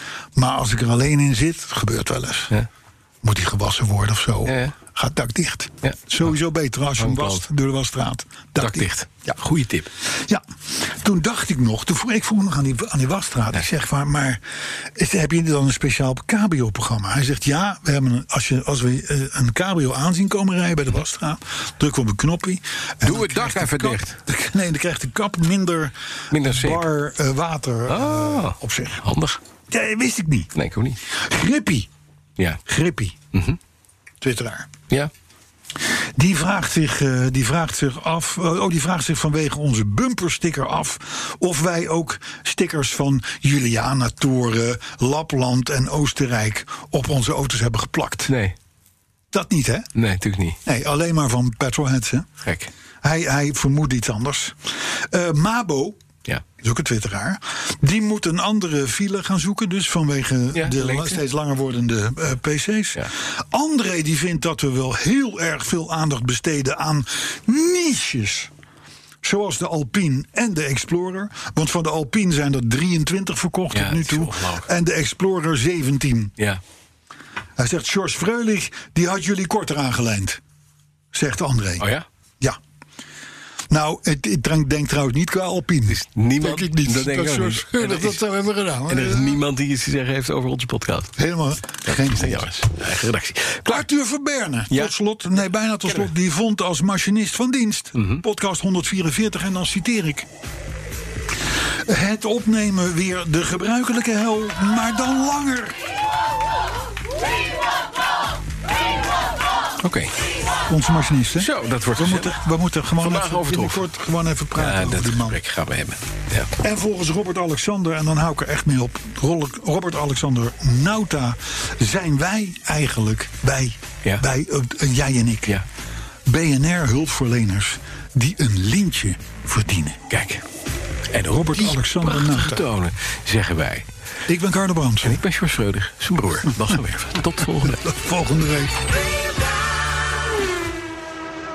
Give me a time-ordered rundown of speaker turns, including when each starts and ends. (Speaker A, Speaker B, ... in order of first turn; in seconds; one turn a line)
Speaker A: 0.3-2.6
Speaker A: 3.2-9.3
Speaker B: 4.5-4.7
Speaker B: 7.0-7.4
Speaker B: 8.6-9.9
Speaker A: 10.0-29.1
Speaker B: 23.0-24.2
Speaker B: 26.3-26.9
Speaker B: 27.9-29.4
Speaker A: 29.7-30.5
Speaker B: 30.5-31.0
Speaker A: 31.1-31.9
Speaker A: 32.6-33.2
Speaker B: 33.3-33.6
Speaker A: 34.2-34.8
Speaker A: 36.1-48.3
Speaker B: 48.3-48.5
Speaker A: 49.3-49.9
Speaker B: 49.9-50.6
Speaker A: 50.6-52.3
Speaker B: 52.4-52.7
Speaker A: 53.0-56.0
Speaker A: 56.6-68.5
Speaker B: 60.5-61.2
Speaker A: 69.2-76.3
Speaker B: 73.7-74.7
Speaker A: 77.6-80.4
Speaker A: 81.1-81.9
Speaker B: 81.8-82.0
Speaker A: 83.7-89.4
Speaker B: 85.9-88.2
Speaker B: 88.8-91.1
Speaker A: 91.2-92.7
Speaker B: 91.8-93.8
Speaker A: 93.7-100.3
Speaker B: 97.9-98.2
Speaker A: 101.8-105.8
Speaker B: 109.8-110.1
Speaker A: 110.7-115.4
Speaker B: 111.4-112.4
Speaker B: 112.9-113.9
Speaker B: 114.5-116.5
Speaker A: 116.6-125.6
Speaker A: 126.2-130.0
Speaker B: 130.1-130.4
Speaker B: 131.1-133.9
Speaker A: 131.2-132.7
Speaker A: 134.3-135.2
Speaker B: 135.0-137.9
Speaker A: 137.6-138.8